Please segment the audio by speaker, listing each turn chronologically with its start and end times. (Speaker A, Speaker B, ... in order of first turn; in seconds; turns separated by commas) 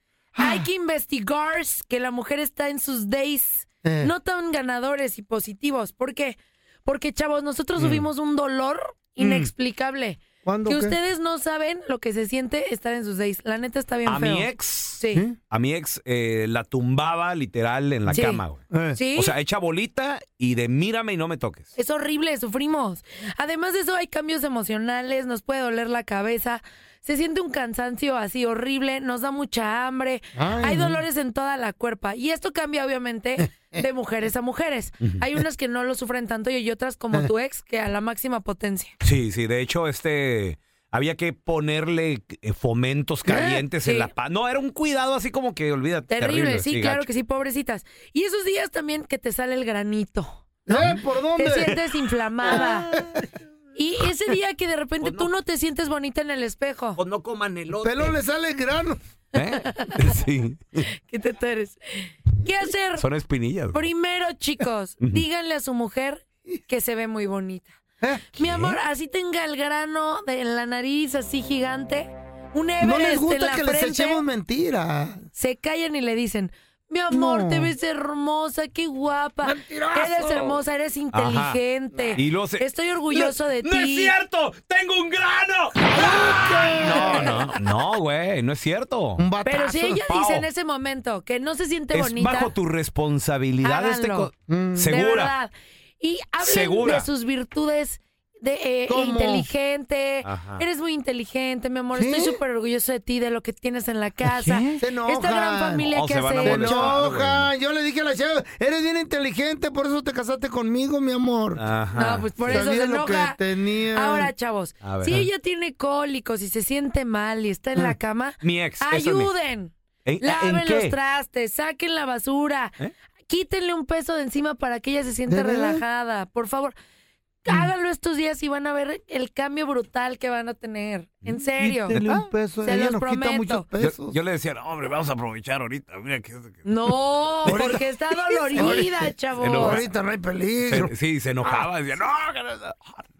Speaker A: 0.3-0.7, Speaker B: 0.4-15.2, Speaker A: 3.8-4.1, Speaker A: 7.8-8.0, Speaker A: 9.2-9.5, Speaker A: 10.4-11.0, Speaker C: 14.1-18.6, Speaker A: 15.1-15.4, Speaker B: 18.1-18.4, Speaker A: 18.7-19.0, Speaker B: 18.9-19.3, Speaker C: 19.1-21.7, Speaker B: 21.8-38.9, Speaker A: 30.3-31.0, Speaker A: 33.4-33.8, Speaker C: 39.0-47.1, Speaker B: 43.3-44.1, Speaker B: 46.1-50.4, Speaker A: 50.7-51.8, Speaker B: 51.4-52.9, Speaker A: 52.5-53.2, Speaker C: 52.5-53.0, Speaker B: 53.7-57.0, Speaker C: 55.0-55.3, Speaker C: 57.0-58.1, Speaker A: 57.8-59.0, Speaker C: 59.3-60.8, Speaker B: 59.5-60.1, Speaker B: 61.1-63.0, Speaker C: 63.0-63.8, Speaker B: 63.7-67.8, Speaker A: 68.0-68.8, Speaker B: 68.4-74.2, Speaker A: 72.8-75.2, Speaker B: 75.3-84.1, Speaker A: 77.1-77.7, Speaker A: 79.4-80.6, Speaker C: 81.1-81.6, Speaker C: 82.1-89.2, Speaker A: 85.9-87.4, Speaker A: 89.2-90.0, Speaker B: 89.4-92.5, Speaker C: 90.1-90.5, Speaker C: 91.9-95.3, Speaker B: 93.6-94.3, Speaker A: 94.5-94.9, Speaker B: 94.9-107.0, Speaker C: 96.4-97.1, Speaker A: 98.9-99.5, Speaker C: 100.2-100.6, Speaker A: 101.9-102.4, Speaker C: 104.3-104.8, Speaker A: 104.8-111.6, Speaker C: 105.9-107.5, Speaker C: 111.6-112.6, Speaker B: 111.9-113.4, Speaker A: 112.4-114.3, Speaker B: 113.9-122.7, Speaker C: 114.8-115.3, Speaker C: 118.4-119.3, Speaker C: 120.0-120.9, Speaker B: 123.3-126.7, Speaker A: 125.3-125.8, Speaker B: 127.4-132.0, Speaker A: 131.6-134.1, Speaker C: 131.9-132.3, Speaker B: 132.6-133.7, Speaker C: 133.8-136.9, Speaker B: 136.7-139.8, Speaker A: 137.4-137.8, Speaker A: 138.5-140.9, Speaker C: 139.4-139.8, Speaker C: 140.6-143.0